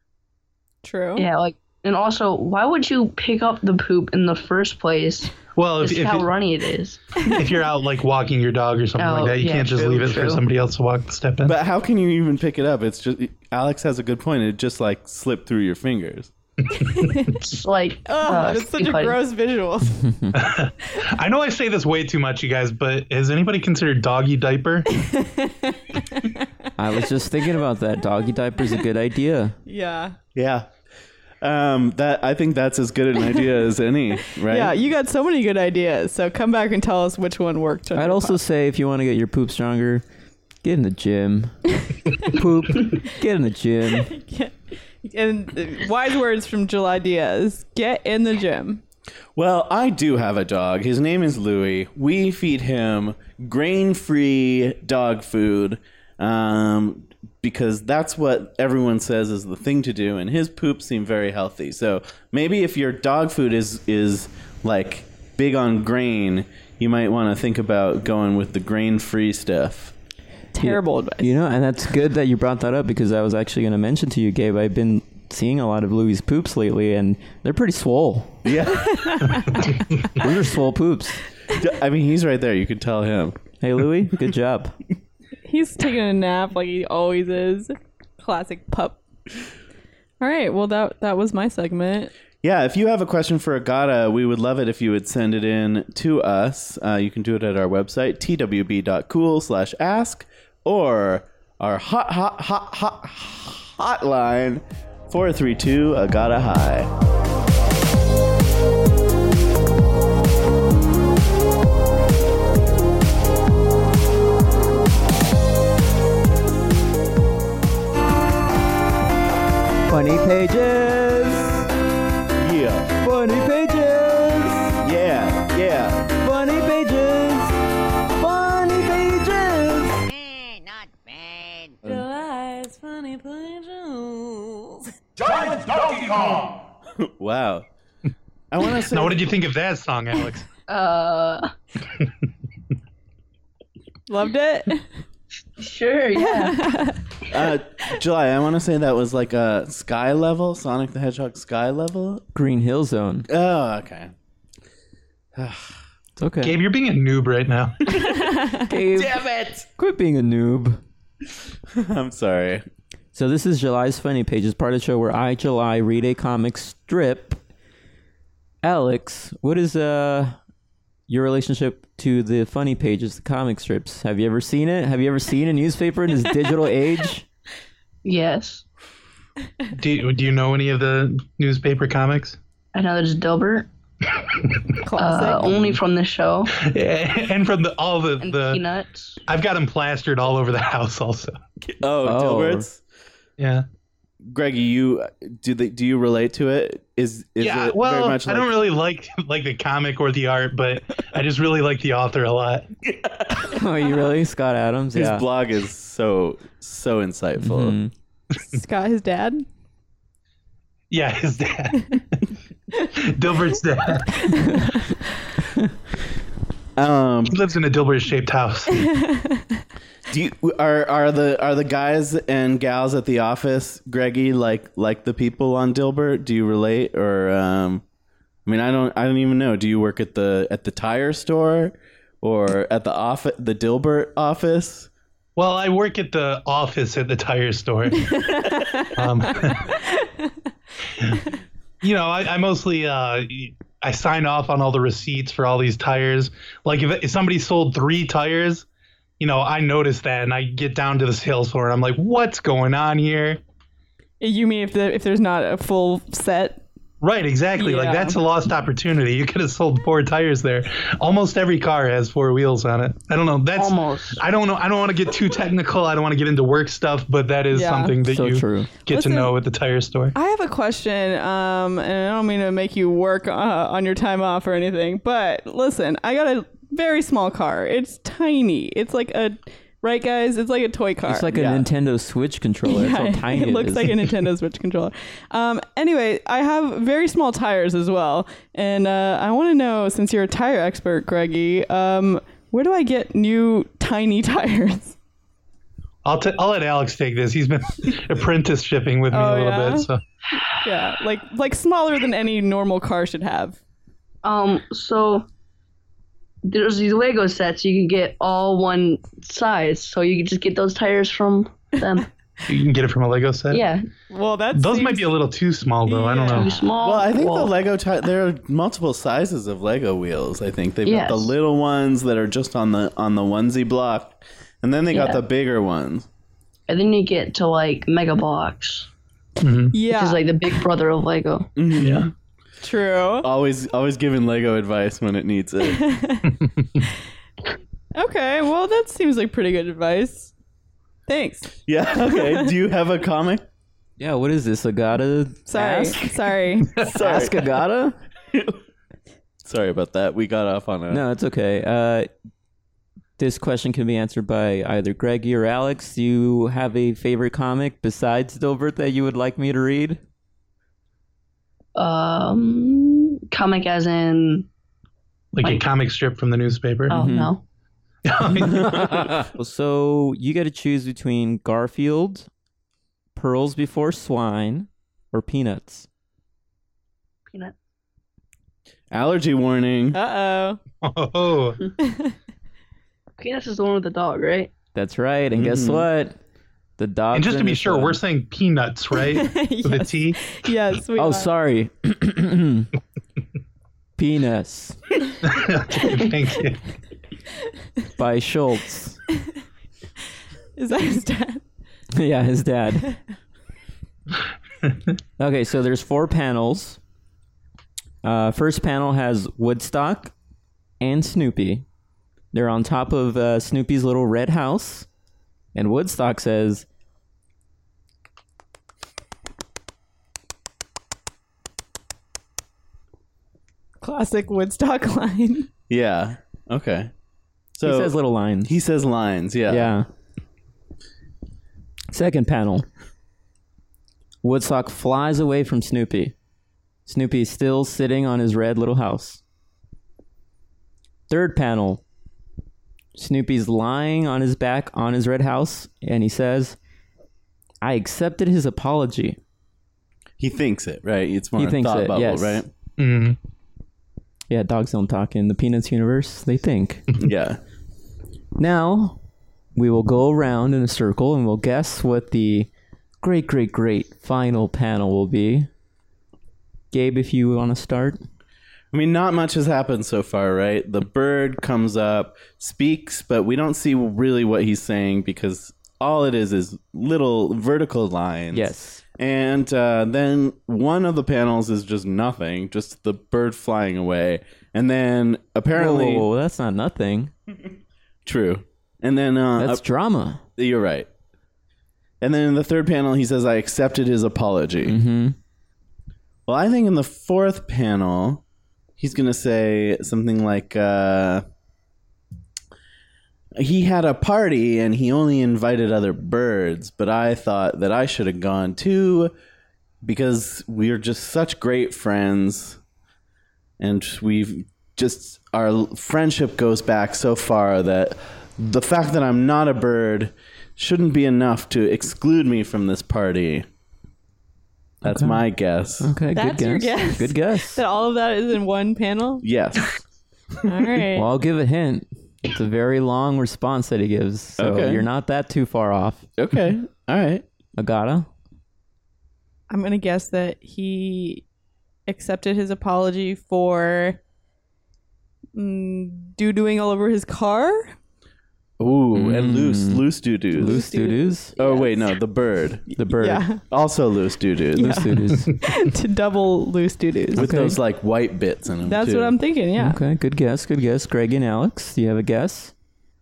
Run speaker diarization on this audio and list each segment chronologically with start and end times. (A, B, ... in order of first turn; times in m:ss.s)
0:00.8-0:01.3 A
0:01.2-0:07.3 B
0:05.6-0:06.3 C
0:07.2-0:11.6 C
0:09.0-0:10.4 B
0:11.4-0:16.3 D
0:16.8-0:17.3 C
0:16.8-0:17.1 A
0:17.4-0:19.2 B
0:18.1-0:20.0 A
0:20.0-0:20.4 E
0:20.3-0:24.9 C
0:25.0-0:26.4 A
0:26.8-0:29.6 E
0:29.7-0:30.2 A
0:30.4-0:30.7 D
0:31.4-0:34.8 D
0:34.3-0:38.4 A
0:38.0-0:40.0 E
0:40.6-0:41.6 E
0:42.3-0:44.1 E
0:44.0-0:48.8 A
0:49.4-1:09.9 D
1:10.5-1:11.3 A
1:10.6-1:18.5 E
1:18.4-1:19.2 D
1:18.7-1:19.8 A
1:20.2-1:21.2 E
1:21.5-1:23.4 D
1:23.6-1:24.8 E
1:25.5-1:29.0 A
1:30.2-1:32.1 A
1:32.4-1:46.9 D
1:59.9-2:01.7 E
2:02.4-2:02.9 D
2:03.0-2:04.8 E
2:04.8-2:06.1 D
2:06.2-2:07.6 E
2:08.2-2:10.1 E
2:11.9-2:14.4 F
2:17.0-2:17.7 D
2:18.5-2:19.3 D
2:18.7-2:20.5 C
2:20.7-2:21.5 B
2:24.1-2:24.9 A
2:25.6-2:26.6 B
2:26.2-2:27.0 A
2:27.3-2:32.2 D
2:32.4-2:33.3 E
2:33.3-2:34.1 D
2:35.4-2:35.8 D
2:36.2-2:36.6 E
2:36.4-2:38.0 C
2:38.0-2:38.6 A
2:38.6-2:39.2 E
2:38.9-2:39.7 D
2:39.8-2:40.8 E
2:41.7-2:42.6 D
2:43.2-2:47.4 E
2:48.6-2:50.4 E
2:51.1-2:57.3 E
2:58.0-2:58.6 B
2:59.7-3:02.4 C
3:02.7-3:03.7 B
3:04.8-3:05.7 A
3:05.0-3:06.5 B
3:06.6-3:08.6 C
3:08.2-3:09.2 B
3:09.3-3:11.4 C
3:11.6-3:12.8 D
3:12.0-3:12.6 E
3:13.4-3:13.6 C
3:14.2-3:18.5 D
3:17.4-3:22.7 C
3:22.8-3:23.6 D
3:23.4-3:25.2 E
3:25.0-3:27.8 D
3:27.4-3:27.9 E
3:28.4-3:29.5 A
3:30.9-3:32.2 C
3:33.0-3:34.4 C
3:34.3-3:34.8 A
3:36.8-3:37.4 D
3:37.3-3:38.9 C
3:38.9-3:39.5 A
3:40.1-3:47.8 D
3:48.5-3:54.9 D
3:55.4-3:59.8 C
3:58.3-3:58.9 A
4:01.8-4:08.7 C
4:09.2-4:13.4 C
4:14.2-4:16.6 A
4:17.0-4:30.1 C
4:17.6-4:18.2 A
4:23.6-4:24.2 B
4:27.5-4:27.9 A
4:28.0-4:28.8 E
4:28.9-4:29.3 A
4:30.1-4:41.3 A
4:41.0-4:44.1 E
4:41.3-4:41.7 D
4:42.7-4:55.0 A
4:56.0-5:00.0 C
4:59.1-4:59.9 A
5:00.6-5:03.6 A
5:04.2-5:05.3 B
5:06.5-5:12.1 B
5:12.5-5:13.7 C
5:13.5-5:13.8 B
5:14.1-5:15.1 A
5:14.6-5:16.6 C
5:15.9-5:16.6 A
5:16.2-5:17.5 B
5:16.8-5:26.1 D
5:20.8-5:21.3 B
5:24.9-5:25.2 B
5:26.7-5:28.9 B
5:29.4-5:29.8 C
5:29.7-5:30.2 A
5:29.9-5:31.5 B
5:31.6-5:32.1 D
5:31.8-5:32.1 C
5:32.6-5:33.3 A
5:33.2-5:35.9 D
5:35.7-5:36.3 A
5:38.0-5:40.3 A
5:41.1-5:42.5 A
5:41.7-5:43.4 D
5:44.0-5:46.1 E
5:45.5-5:46.7 A
5:46.9-5:47.6 D
5:46.9-5:48.0 E
5:48.3-5:48.6 D
5:49.4-5:51.0 D
5:50.9-5:52.1 E
5:53.2-6:00.0 E
6:01.8-6:04.5 B
6:05.3-6:07.0 C
6:06.9-6:07.4 B
6:06.9-6:07.3 E
6:08.0-6:09.0 C
6:08.4-6:12.3 E
6:13.2-6:15.9 E
6:18.9-6:20.0 D
6:19.9-6:20.6 A
6:20.8-6:21.6 C
6:21.8-6:22.1 A
6:23.2-6:24.5 B
6:24.8-6:26.2 E
6:25.3-6:25.9 D
6:26.8-6:28.0 E
6:27.1-6:30.2 C
6:29.1-6:31.3 A
6:31.0-6:32.7 E
6:34.0-6:34.8 E
6:35.2-6:36.6 C
6:38.0-6:39.0 E
6:40.6-6:41.4 A
6:42.0-6:43.0 E
6:45.2-6:46.8 E
6:48.0-6:50.1 E
6:50.8-6:51.6 E
6:52.3-6:54.9 E
6:55.6-6:56.7 E
7:03.8-7:05.5 A
7:05.7-7:06.9 D
7:07.6-7:09.7 D
7:07.6-7:08.5 E
7:09.5-7:09.9 E
7:11.9-7:12.7 E
7:14.2-7:16.1 E
7:16.9-7:19.2 E
7:21.1-7:21.8 E
7:23.0-7:26.6 E
7:27.6-7:29.2 E
7:30.2-7:32.5 D
7:31.4-7:32.4 E
7:32.8-7:33.2 C
7:34.3-7:36.8 E
7:37.0-7:37.4 D
7:38.4-7:39.0 E
7:39.6-7:42.5 E
7:43.0-7:45.5 E
7:46.7-7:48.0 E
7:48.7-8:06.1 D
7:58.3-7:58.8 E
8:05.5-8:07.1 E
8:08.1-8:09.6 D
8:09.4-8:10.2 E
8:10.4-8:10.9 D
8:12.0-8:14.8 D
8:14.7-8:15.2 E
8:16.3-8:18.2 D
8:18.8-8:21.2 D
8:23.4-8:29.1 D
8:29.8-8:32.6 D
8:33.6-8:43.5 D
8:44.8-8:45.2 E
8:44.8-8:45.9 D
8:45.8-8:47.6 E
8:46.2-8:49.2 A
8:49.2-8:49.8 D
8:50.5-8:51.1 A
8:50.9-8:56.1 E
8:54.4-8:54.9 D
8:56.2-8:57.2 D
8:57.6-8:58.1 E
8:59.5-9:01.2 A
9:01.9-9:04.0 A
9:05.4-9:07.8 A
9:08.6-9:10.6 D
9:08.9-9:11.3 E
9:10.4-9:11.9 A
9:11.4-9:12.7 D
9:12.8-9:13.3 E
9:12.8-9:13.4 A
9:13.5-9:14.8 D
9:14.6-9:17.3 A
9:14.6-9:15.3 E
9:17.1-9:17.6 E
9:17.2-9:19.2 D
9:18.7-9:19.8 A
9:19.6-9:22.5 E